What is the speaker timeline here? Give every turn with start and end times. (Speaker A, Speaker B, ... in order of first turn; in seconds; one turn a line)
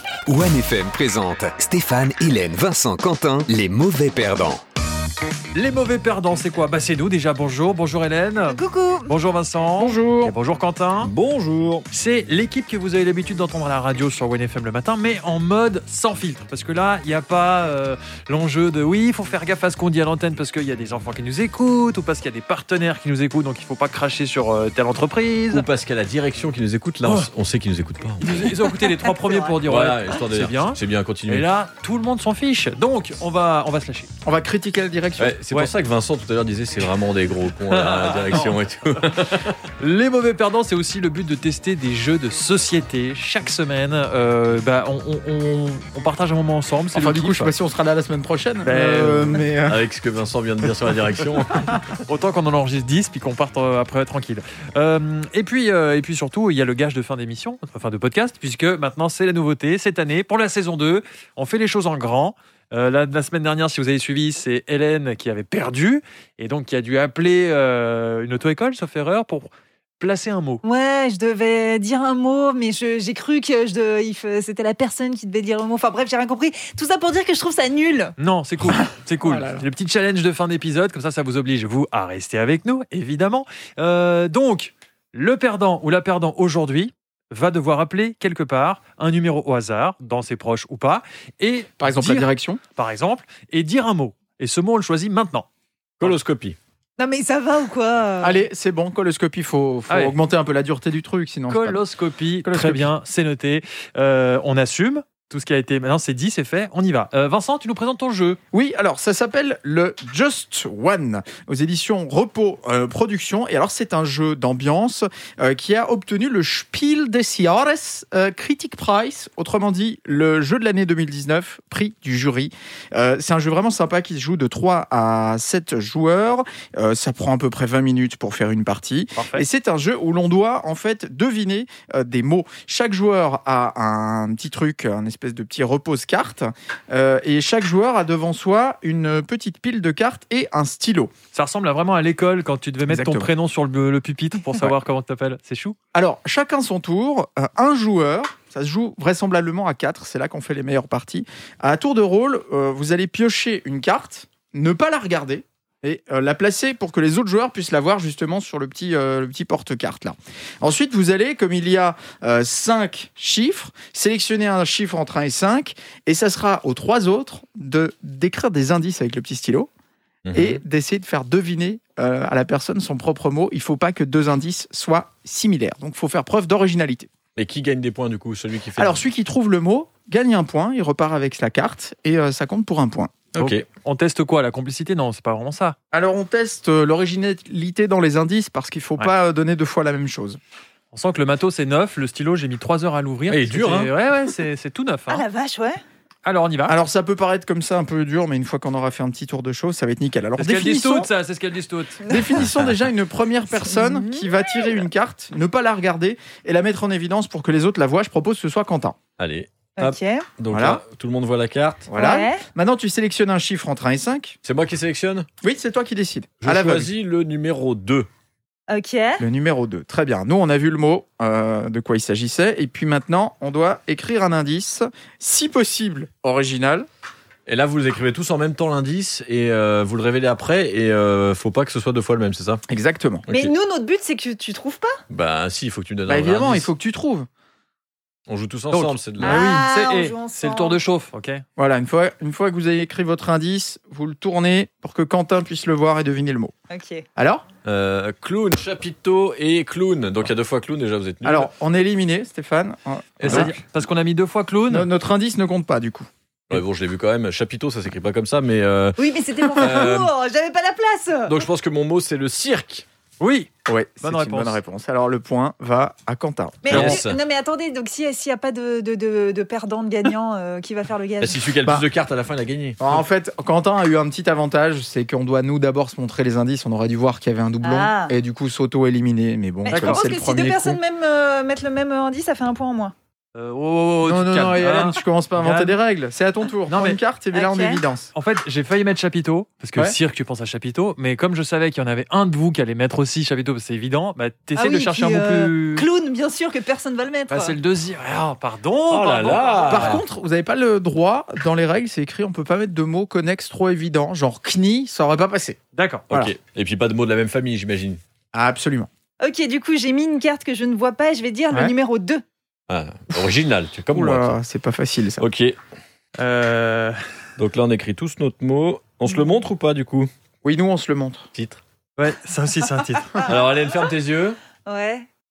Speaker A: 0.3-4.6
Speaker B: 5.5-11.1
Speaker C: 8.5-9.1
Speaker D: 9.8-10.3
Speaker E: 11.0-11.8
Speaker B: 11.9-25.6
Speaker E: 25.5-28.8
Speaker B: 28.2-34.1
Speaker C: 29.2-29.5
Speaker E: 29.6-31.5
Speaker D: 34.2-35.4
Speaker E: 35.2-39.6
Speaker B: 37.7-38.6
Speaker B: 39.8-47.5
Speaker D: 46.9-49.8
Speaker B: 48.6-49.5
Speaker E: 49.7-51.7
Speaker D: 51.5-51.8
Speaker B: 52.0-70.6
Speaker C: 70.6-78.2
Speaker B: 78.2-95.5
Speaker D: 78.8-79.7
Speaker D: 91.8-92.6
Speaker E: 96.0-96.6
Speaker C: 97.0-98.4
Speaker D: 98.2-101.8
Speaker B: 99.9-100.2
Speaker B: 101.5-108.4
Speaker D: 102.4-102.9
Speaker D: 108.5-141.1
Speaker B: 129.2-129.4
Speaker B: 141.3-145.8
Speaker D: 142.9-143.3
Speaker D: 145.9-169.7
Speaker E: 170.2-170.6
Speaker D: 170.3-177.1
Speaker E: 177.4-179.0
Speaker D: 178.8-183.2
Speaker E: 183.4-183.7
Speaker B: 183.4-185.8
Speaker D: 185.9-190.4
Speaker B: 190.9-195.2
Speaker E: 193.3-193.9
Speaker C: 195.1-195.8
Speaker B: 196.2-196.8
Speaker D: 196.7-201.1
Speaker B: 200.4-202.0
Speaker C: 202.1-202.3
Speaker D: 202.1-209.0
Speaker E: 202.4-202.8
Speaker C: 203.7-204.8
Speaker E: 209.2-211.9
Speaker C: 209.8-210.3
Speaker D: 210.5-210.8
Speaker D: 211.9-214.4
Speaker C: 212.0-212.4
Speaker E: 214.4-215.3
Speaker D: 215.4-216.9
Speaker E: 216.4-218.1
Speaker C: 218.7-219.2
Speaker D: 219.2-226.9
Speaker E: 227.5-232.6
Speaker D: 232.7-233.3
Speaker E: 233.3-233.5
Speaker C: 233.3-235.0
Speaker E: 235.1-236.7
Speaker D: 236.1-237.3
Speaker E: 238.3-239.4
Speaker B: 238.7-241.4
Speaker C: 239.2-240.8
Speaker D: 241.6-246.5
Speaker C: 246.7-247.1
Speaker D: 247.2-247.4
Speaker E: 247.7-251.5
Speaker D: 251.2-253.6
Speaker E: 253.2-253.5
Speaker B: 253.2-254.9
Speaker D: 254.7-256.1
Speaker E: 256.5-259.0
Speaker C: 259.0-261.4
Speaker E: 259.5-260.1
Speaker E: 261.3-262.9
Speaker B: 263.2-263.5
Speaker D: 263.7-267.0
Speaker B: 264.0-264.6
Speaker C: 266.6-271.4
Speaker E: 266.7-267.2
Speaker E: 271.2-272.8
Speaker D: 272.8-280.8
Speaker C: 277.6-278.1
Speaker C: 279.7-282.9
Speaker B: 279.7-280.0
Speaker B: 283.4-285.8
Speaker D: 284.0-288.1
Speaker B: 286.7-287.0
Speaker C: 287.3-287.8
Speaker B: 288.1-295.9
Speaker C: 294.6-297.6
Speaker B: 297.3-300.0
Speaker E: 298.9-300.0
Speaker D: 299.7-305.6
Speaker B: 305.8-306.1
Speaker E: 306.1-308.0
Speaker D: 308.3-308.9
Speaker C: 309.2-312.2
Speaker E: 312.7-314.3
Speaker D: 313.9-315.2
Speaker E: 315.2-315.6
Speaker B: 316.2-317.0
Speaker E: 317.4-320.1
Speaker D: 320.4-321.3
Speaker E: 321.4-321.6
Speaker B: 322.0-323.3
Speaker E: 323.2-324.4
Speaker C: 324.6-325.1